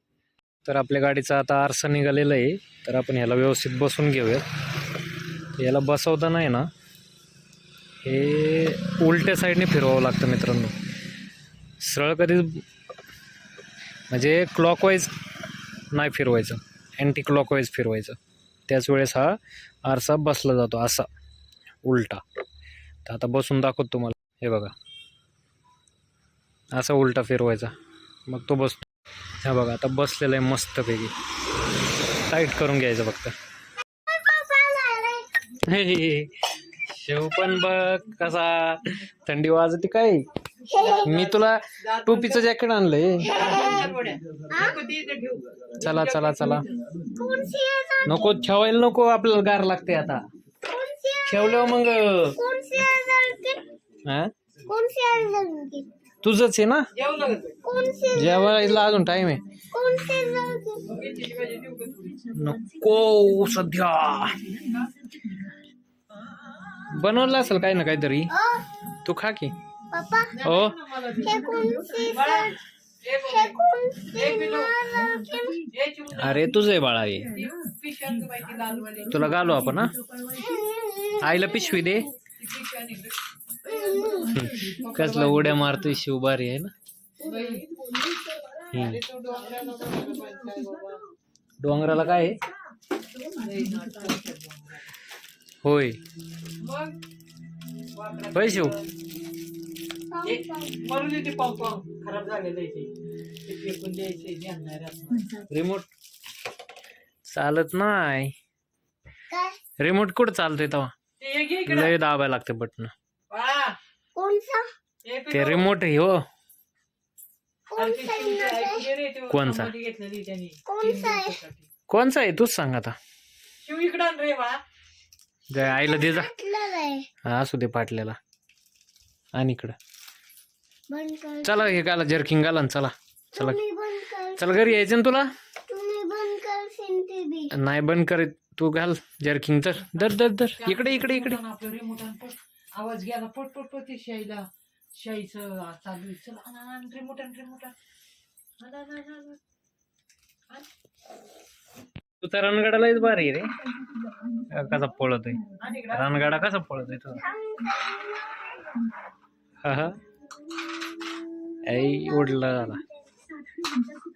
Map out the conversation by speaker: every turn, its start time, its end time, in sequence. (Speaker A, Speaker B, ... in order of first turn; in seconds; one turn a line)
Speaker A: 0.6-4.5
Speaker A: 5.5-6.7
Speaker A: 8.0-10.7
Speaker A: 11.8-12.6
Speaker A: 14.1-15.1
Speaker A: 15.9-18.2
Speaker A: 18.7-21.1
Speaker A: 21.8-22.2
Speaker A: 23.1-24.7
Speaker A: 26.7-27.7
Speaker A: 28.3-28.8
Speaker A: 29.4-31.1
Speaker A: 32.2-33.3
Speaker B: 34.0-35.3
Speaker A: 35.5-40.2
Speaker B: 40.7-41.1
Speaker C: 40.7-42.4
Speaker A: 41.0-43.4
Speaker C: 43.2-46.7
Speaker B: 43.3-43.8
Speaker B: 44.5-44.8
Speaker A: 45.8-46.7
Speaker B: 47.1-48.3
Speaker A: 48.0-50.2
Speaker B: 50.6-53.6
Speaker A: 51.2-52.4
Speaker B: 54.6-55.9
Speaker A: 56.2-56.9
Speaker C: 56.9-57.6
Speaker B: 57.6-58.9
Speaker A: 58.1-59.4
Speaker B: 59.7-60.9
Speaker C: 60.9-62.3
Speaker A: 62.3-64.8
Speaker A: 66.8-68.3
Speaker B: 68.3-68.7
Speaker A: 69.0-69.5
Speaker B: 69.9-70.4
Speaker C: 70.4-73.6
Speaker A: 70.4-70.8
Speaker B: 71.2-72.6
Speaker B: 73.2-75.7
Speaker C: 74.1-74.8
Speaker C: 75.7-76.5
Speaker A: 76.1-77.3
Speaker C: 77.3-79.1
Speaker A: 79.1-79.9
Speaker B: 80.3-81.8
Speaker A: 81.2-82.1
Speaker C: 82.3-85.8
Speaker B: 83.7-84.4
Speaker A: 84.3-86.7
Speaker C: 87.2-87.7
Speaker C: 88.7-91.0
Speaker A: 88.7-89.0
Speaker A: 91.6-92.4
Speaker C: 93.2-94.9
Speaker A: 95.6-96.0
Speaker C: 96.6-97.0
Speaker C: 97.9-98.9
Speaker A: 98.3-98.7
Speaker B: 100.1-100.8
Speaker C: 100.2-102.9
Speaker C: 103.5-105.4
Speaker A: 105.5-105.9
Speaker A: 107.3-108.3
Speaker B: 109.3-109.6
Speaker A: 109.8-110.9
Speaker C: 111.2-111.9
Speaker A: 111.7-112.9
Speaker C: 113.3-113.8
Speaker B: 114.1-114.7
Speaker C: 115.0-115.7
Speaker A: 115.3-116.2
Speaker B: 117.7-118.9
Speaker C: 117.8-121.7
Speaker A: 119.3-119.7
Speaker B: 120.7-121.4
Speaker A: 121.9-123.0
Speaker C: 123.6-124.6
Speaker A: 125.5-126.3
Speaker B: 125.6-127.1
Speaker A: 127.2-128.2
Speaker A: 129.3-129.8
Speaker B: 130.9-131.8
Speaker A: 131.4-133.6
Speaker B: 133.3-134.8
Speaker A: 134.3-135.3
Speaker B: 135.7-137.5
Speaker A: 137.5-141.4
Speaker C: 140.6-147.7
Speaker C: 148.6-149.4
Speaker A: 152.2-153.6
Speaker A: 154.5-157.2
Speaker C: 155.6-156.2
Speaker B: 157.2-158.8
Speaker A: 159.6-160.0
Speaker A: 161.7-162.8
Speaker B: 161.9-163.9